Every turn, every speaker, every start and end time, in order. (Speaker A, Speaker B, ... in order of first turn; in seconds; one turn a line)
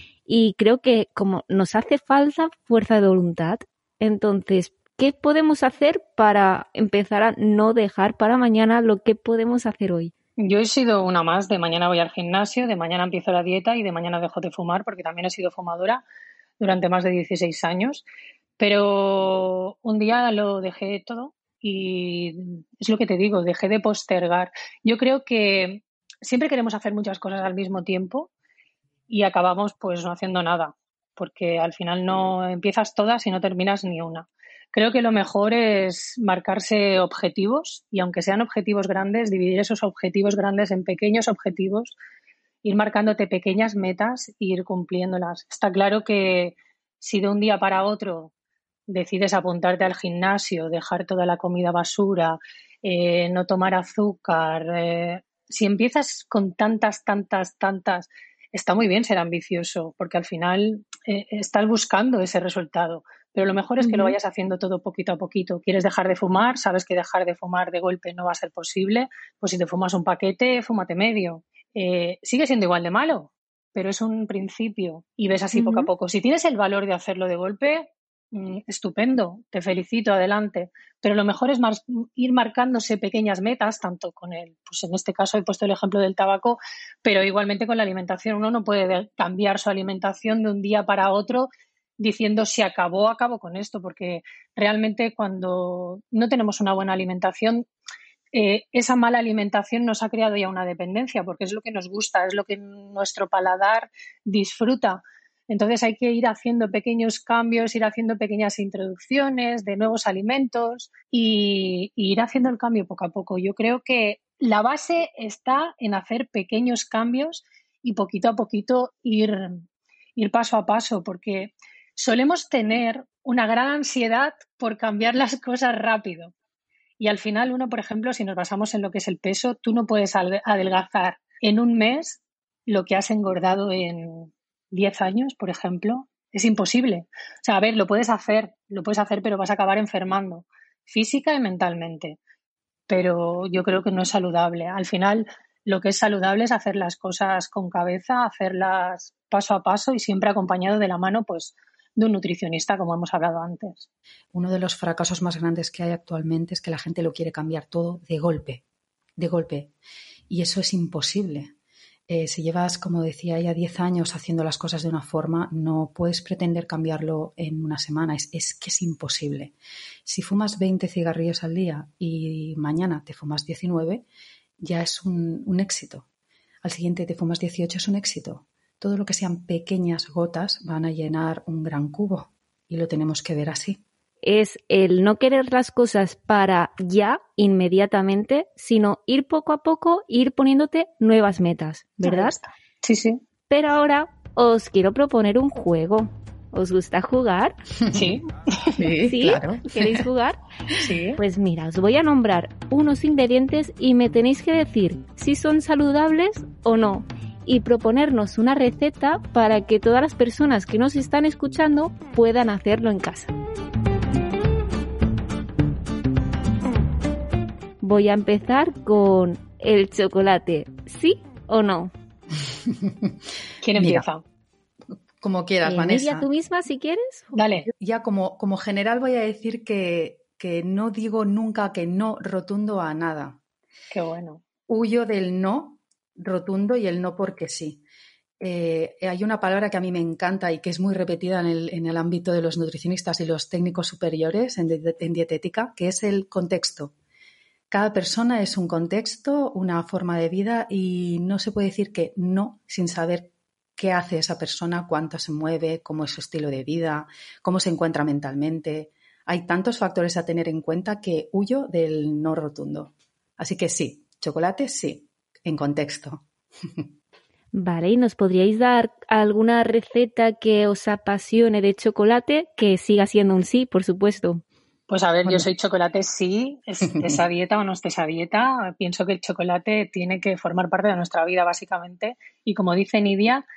Speaker A: 0.3-10.1
Speaker B: 10.4-16.0
Speaker B: 16.6-18.1
Speaker B: 18.6-28.3
Speaker B: 29.1-42.0
Speaker B: 42.6-48.3
Speaker B: 48.9-97.7
Speaker A: 63.8-64.2
Speaker A: 75.5-75.9
Speaker B: 98.3-119.6
Speaker B: 120.2-126.3
Speaker B: 127.0-142.2
Speaker B: 142.9-153.9
Speaker C: 154.3-158.6
Speaker C: 159.2-159.7
Speaker C: 160.3-161.5
Speaker C: 162.1-169.5
Speaker C: 170.1-174.1
Speaker C: 174.6-176.1
Speaker C: 176.6-183.8
Speaker A: 184.2-192.3
Speaker B: 192.0-193.2
Speaker A: 193.5-197.6
Speaker C: 197.8-198.2
Speaker B: 197.9-198.8
Speaker C: 198.8-200.1
Speaker A: 199.0-200.4
Speaker B: 200.8-201.2
Speaker A: 201.2-213.3
Speaker A: 217.8-221.9
Speaker C: 222.6-223.1
Speaker B: 223.6-224.2
Speaker C: 223.8-224.1
Speaker C: 225.2-226.3
Speaker A: 225.6-227.3
Speaker B: 227.3-227.7
Speaker C: 227.7-233.4
Speaker B: 233.9-234.4
Speaker C: 234.7-237.8
Speaker C: 238.4-246.9
Speaker C: 247.7-266.9
Speaker A: 267.5-274.4
Speaker B: 274.9-283.4
Speaker C: 276.9-277.2